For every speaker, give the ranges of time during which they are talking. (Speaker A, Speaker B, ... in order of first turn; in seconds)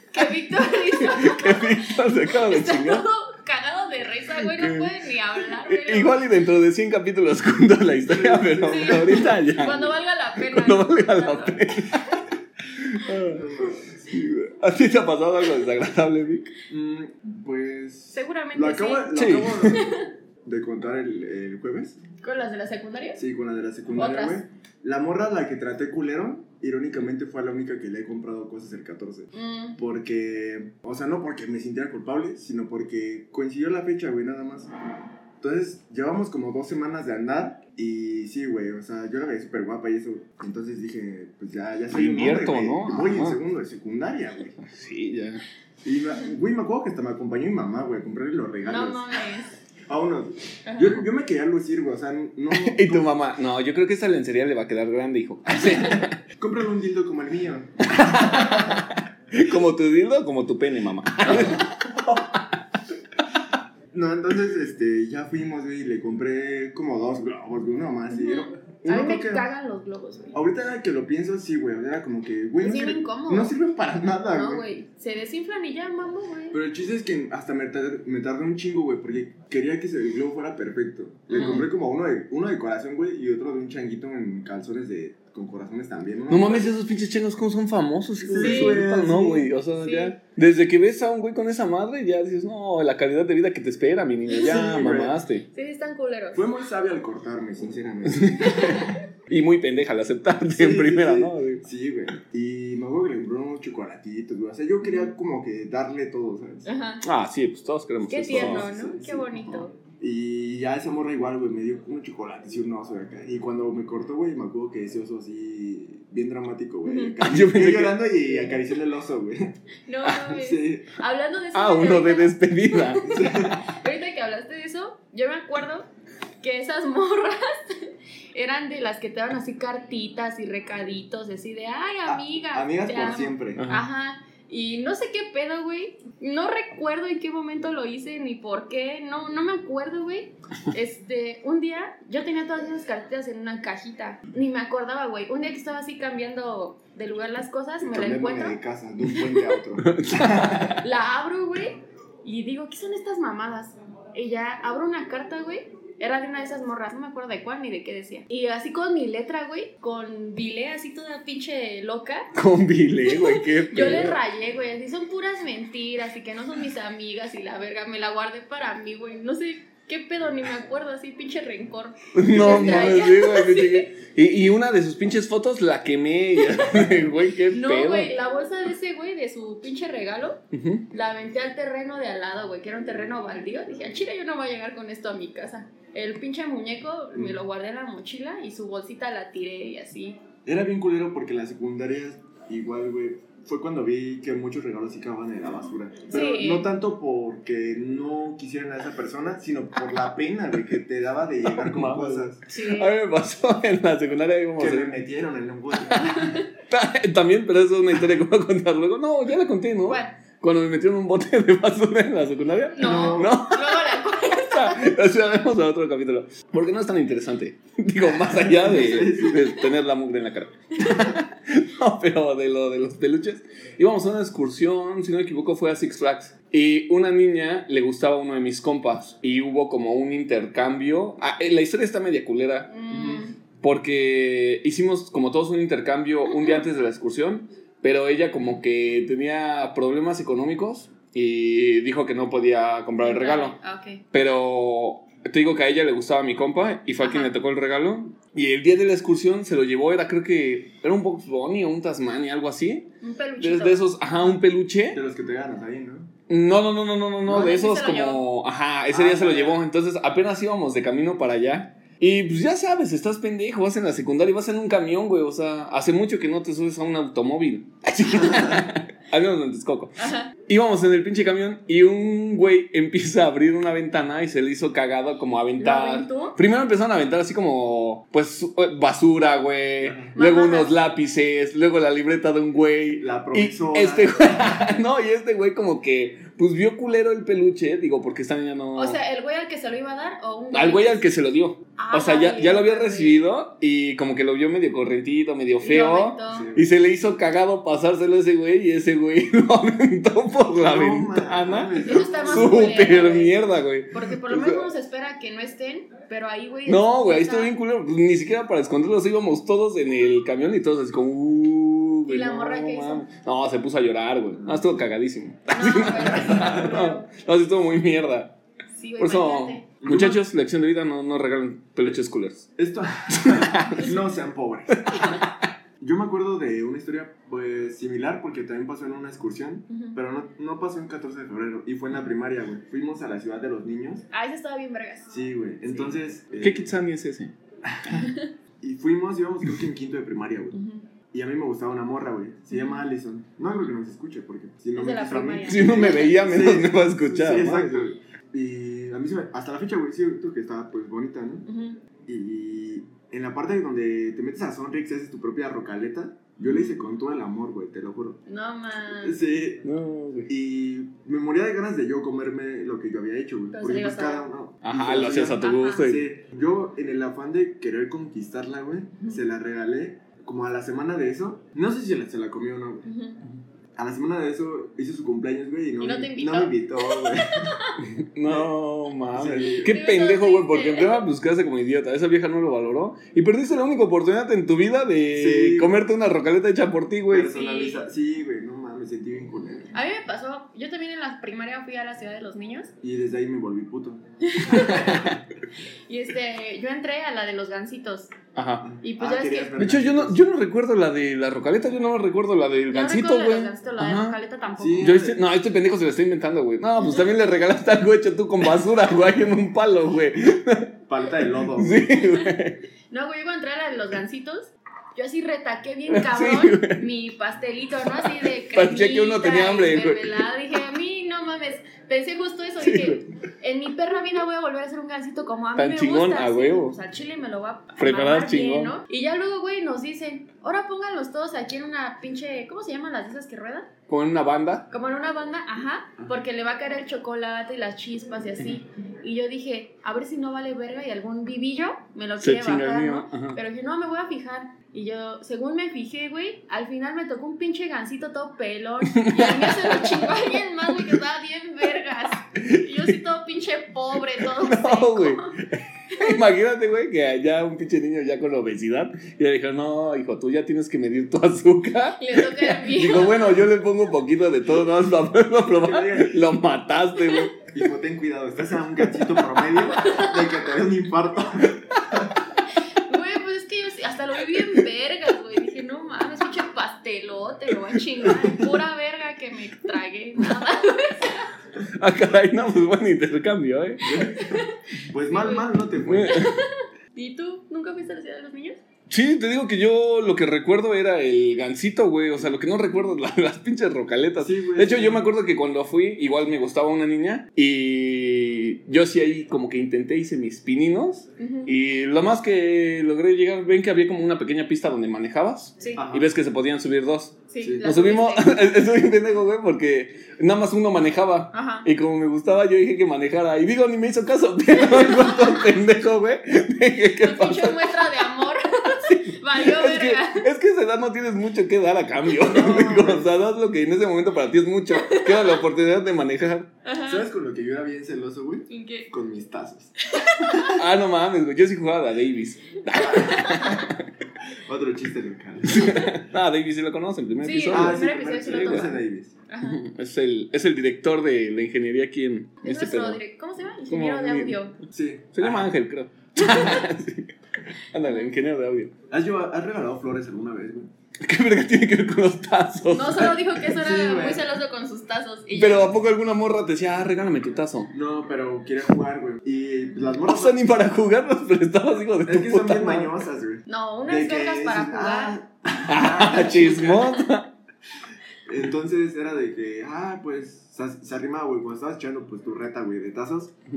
Speaker A: 0.1-6.3, 8.7-11.8, 18.1-20.1, 22.2-23.2, 23.9-24.4, 29.3-29.8, 48.6-49.5, 50.6-51.0, 68.1-70.4, 72.6-73.5, 74.3-76.6, 81.3-81.7, 88.4-88.8, 89.8-90.1, 95.5-96.5, 98.5-99.0, 106.7-107.0, 108.1-109.7, 116.8-117.2, 119.9-125.9, 126.4-148.6, 150.8-162.3, 163.1-173.9, 176.4-190.2, 196.1-196.7, 202.5-202.9, 205.9-206.5, 209.8-210.2, 212.8-214.9, 232.7-233.3, 243.0-244.0, 247.0-247.3, 253.0-253.8, 257.2-258.2, 270.0-270.3, 275.6-276.4, 280.1-280.7, 288.7-291.0, 291.8-293.3, 295.6-296.5, 301.8-307.5, 312.1-313.0, 315.5-317.1, 318.7-319.7, 324.9-325.2, 329.7-330.0, 334.1-335.1, 335.7-335.9, 337.9-338.3, 340.5-340.9, 342.5-342.8, 344.7-346.2, 351.5-351.8, 356.4-356.7, 358.3-359.2, 363.5-364.2, 365.1-365.9, 372.8-373.2, 375.8-377.8, 379.6-381.0, 387.3-387.9, 389.7-392.7, 394.2-395.1, 395.9-398.1, 398.8-399.6, 402.7-404.9, 411.9-412.3, 412.9-433.7, 434.7-455.3, 455.9-456.2, 462.0-463.4, 469.8-470.2, 472.8-481.3, 483.9-485.5, 486.1-488.6, 501.2-501.5, 507.3-508.3, 511.3-511.6, 514.5-515.4, 517.0-520.3, 524.7-525.4, 526.6-527.0, 528.5-528.9, 529.8-530.6, 532.8-533.7, 535.6-535.9, 537.2-538.8, 539.3-539.6, 542.4-544.5, 546.2-546.6, 547.8-548.1, 552.7-555.7, 563.5-565.2, 566.4-566.8
Speaker B: 0.7-3.1, 4.5-4.9, 5.6-12.2, 12.8-13.5, 14.1-16.5, 19.1-19.9, 41.9-43.4, 44.6-45.4, 52.5-56.2, 57.9-62.2, 81.3-81.6, 86.3-95.5, 98.0-101.6, 107.0-108.7, 117.2-118.5, 121.5-123.6, 133.5-133.8, 149.8-150.8, 162.3-164.2, 172.1-178.2, 180.5-180.8, 201.5-205.0, 205.9-232.7, 233.6-243.6, 244.1-255.0, 256.3-289.0, 290.5-304.7, 306.6-318.4, 319.0-322.5, 323.1-323.9, 324.7-325.2, 336.4-337.3, 345.4-347.9, 359.6-360.3, 364.6-366.1, 377.8-387.3, 394.5-395.2, 398.3-398.7, 399.6-404.2, 404.8-410.7, 411.6-412.6, 415.9-416.8, 418.0-420.2, 422.6-423.0, 425.6-426.8, 427.8-428.8, 433.9-434.7, 442.2-443.4, 448.9-451.0, 452.3-453.0, 454.1-467.5, 481.6-484.0, 485.7-486.3, 488.9-518.0, 518.8-526.5, 530.5-533.9, 535.5-538.8, 539.4-543.0, 543.7-544.4, 545.1-548.7, 551.0-553.4, 555.3-557.7, 560.0-562.9, 565.7-567.3
Speaker C: 8.1-9.3, 13.1-14.2, 16.7-22.0, 23.2-34.7, 35.4-44.6, 45.8-49.0, 49.9-53.1, 56.4-58.6, 61.3-61.6, 63.9-69.5, 70.3-74.7, 76.5-86.7, 88.2-89.5, 94.3-95.2, 96.3-98.7, 100.5-106.7, 108.3-119.5, 120.2-120.9, 123.0-123.6, 132.1-133.6, 147.8-150.8, 187.1-187.4, 190.4-202.4, 204.6-206.2, 212.8-213.4, 218.2-219.6, 232.9-233.2, 254.9-256.1, 258.9-259.6, 279.8-280.1, 283.0-284.6, 296.3-296.7, 300.6-303.0, 314.4-314.7, 319.8-320.2, 322.6-325.2, 325.8-334.1, 335.1-336.7, 337.6-340.6, 341.1-351.5, 352.1-358.2, 359.0-359.7, 360.3-372.9, 373.8-377.6, 379.1-379.7, 385.1-385.8, 387.1-389.7, 392.8-394.9, 398.6-400.2, 404.6-405.2, 410.9-411.9, 465.5-466.2, 467.5-472.1, 483.8-486.2, 494.1-495.1, 505.8-506.1, 507.4-507.7, 522.2-523.1, 526.8-530.6, 534.5-535.8, 537.5-539.2, 544.7-545.5, 548.9-550.7, 553.5-554.3, 557.7-560.4, 562.0-567.0, 568.2-573.3